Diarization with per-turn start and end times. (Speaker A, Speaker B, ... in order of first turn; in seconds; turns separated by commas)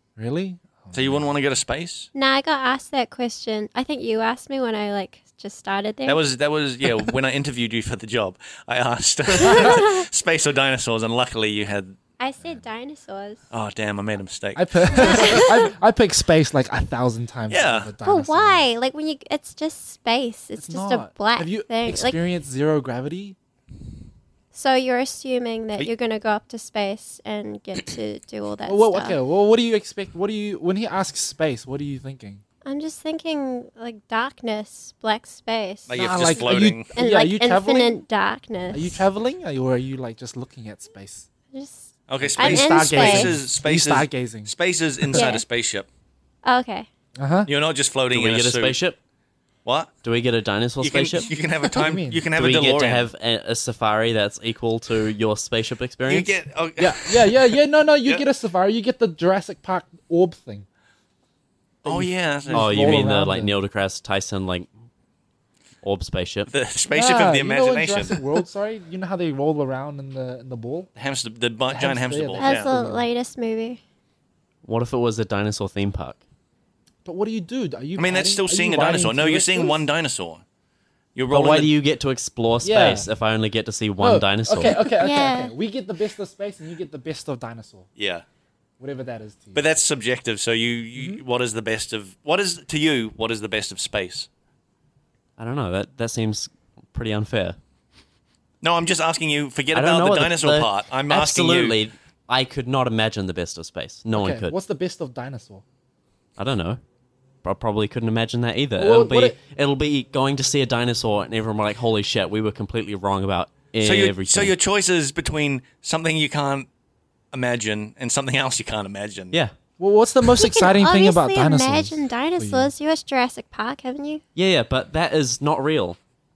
Speaker A: 0.2-1.3, Speaker B: 0.9-2.1, Speaker C: 2.1-6.2, Speaker B: 6.0-12.0, Speaker C: 12.2-13.4, Speaker B: 13.5-15.4, Speaker A: 14.5-18.6, Speaker C: 14.9-15.7, Speaker B: 17.5-17.9, Speaker C: 18.0-22.1, Speaker A: 20.6-23.4, Speaker C: 24.5-29.2, Speaker A: 28.7-32.4, Speaker C: 32.6-39.0, Speaker B: 35.9-36.9, Speaker A: 36.0-38.0, Speaker A: 38.7-41.3, Speaker C: 41.5-43.3, Speaker B: 42.1-45.9, Speaker A: 42.2-45.2, Speaker C: 45.1-45.4, Speaker C: 46.4-46.9, Speaker A: 47.2-47.5, Speaker B: 47.5-48.8, Speaker D: 48.1-49.0, Speaker B: 49.6-49.9, Speaker D: 50.0-51.3, Speaker B: 50.8-53.1, Speaker A: 51.7-52.2, Speaker D: 52.4-56.3, Speaker B: 56.0-58.2, Speaker A: 56.8-60.6, Speaker B: 61.8-63.1, Speaker A: 61.8-63.5, Speaker D: 62.5-64.7, Speaker D: 65.8-66.5, Speaker B: 66.5-68.2, Speaker A: 66.9-70.9, Speaker B: 71.0-72.7, Speaker A: 71.7-73.0, Speaker C: 72.4-73.8, Speaker D: 74.6-76.2, Speaker A: 77.0-79.8, Speaker B: 77.9-80.4, Speaker B: 81.1-81.7, Speaker D: 81.3-84.8, Speaker A: 82.6-83.1, Speaker A: 84.0-87.9, Speaker C: 85.0-85.5, Speaker B: 88.0-88.2, Speaker A: 88.8-89.6, Speaker B: 89.5-94.3, Speaker A: 90.9-91.2, Speaker D: 95.4-97.6, Speaker B: 98.6-101.8, Speaker D: 99.7-104.5, Speaker A: 104.1-105.6, Speaker D: 106.4-106.8, Speaker D: 107.4-114.5, Speaker A: 108.8-109.3, Speaker B: 113.8-116.7, Speaker B: 117.3-119.3, Speaker A: 119.8-122.7, Speaker C: 120.4-124.2, Speaker D: 124.3-126.0